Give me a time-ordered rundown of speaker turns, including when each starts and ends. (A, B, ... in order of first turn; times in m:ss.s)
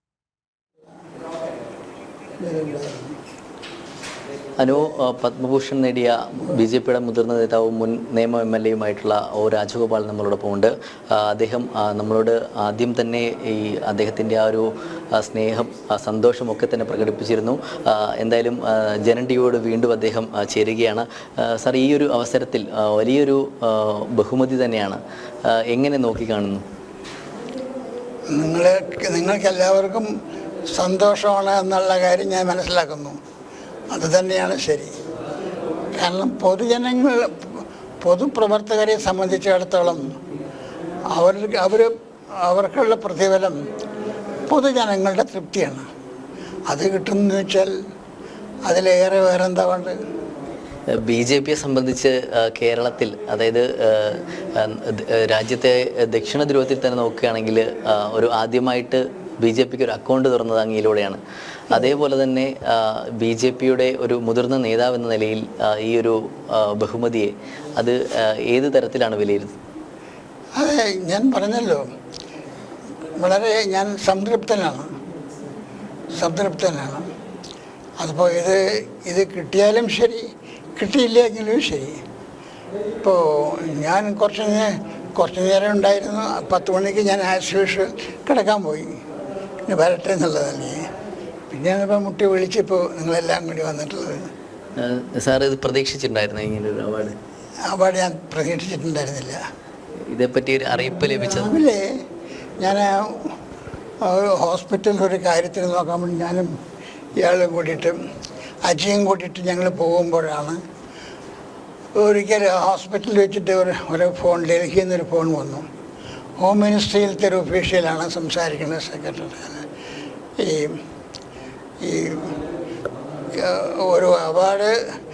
0:02.4-0:03.2 A
0:04.6-0:26.6 B
0:28.3-0:30.1 A
0:30.8-0:33.2 A
0:33.9-0:34.9 A
0:36.0-0:40.1 A
0:41.1-0:41.9 A
0:42.4-0:43.6 A
0:44.5-0:45.8 A
0:46.7-0:47.7 A
0:48.7-0:49.9 A
0:51.0-1:01.2 B
1:01.7-1:09.6 B
1:10.6-1:11.8 A
1:13.2-1:14.9 A
1:16.2-1:17.0 A
1:18.0-1:20.2 A
1:20.8-1:22.0 A
1:23.0-1:29.0 A
1:29.6-1:30.8 A
1:31.5-1:34.1 A
1:34.8-1:37.2 B
1:37.7-1:39.4 A
1:40.1-1:41.5 B
1:41.2-1:41.8 A
1:42.6-1:43.3 A
1:44.0-1:46.5 A
1:47.2-1:48.0 A
1:48.6-1:50.6 A
1:52.0-1:55.6 A
1:56.4-1:59.6 A
2:00.4-2:00.8 A
2:01.8-2:02.4 A
2:03.3-2:04.7 A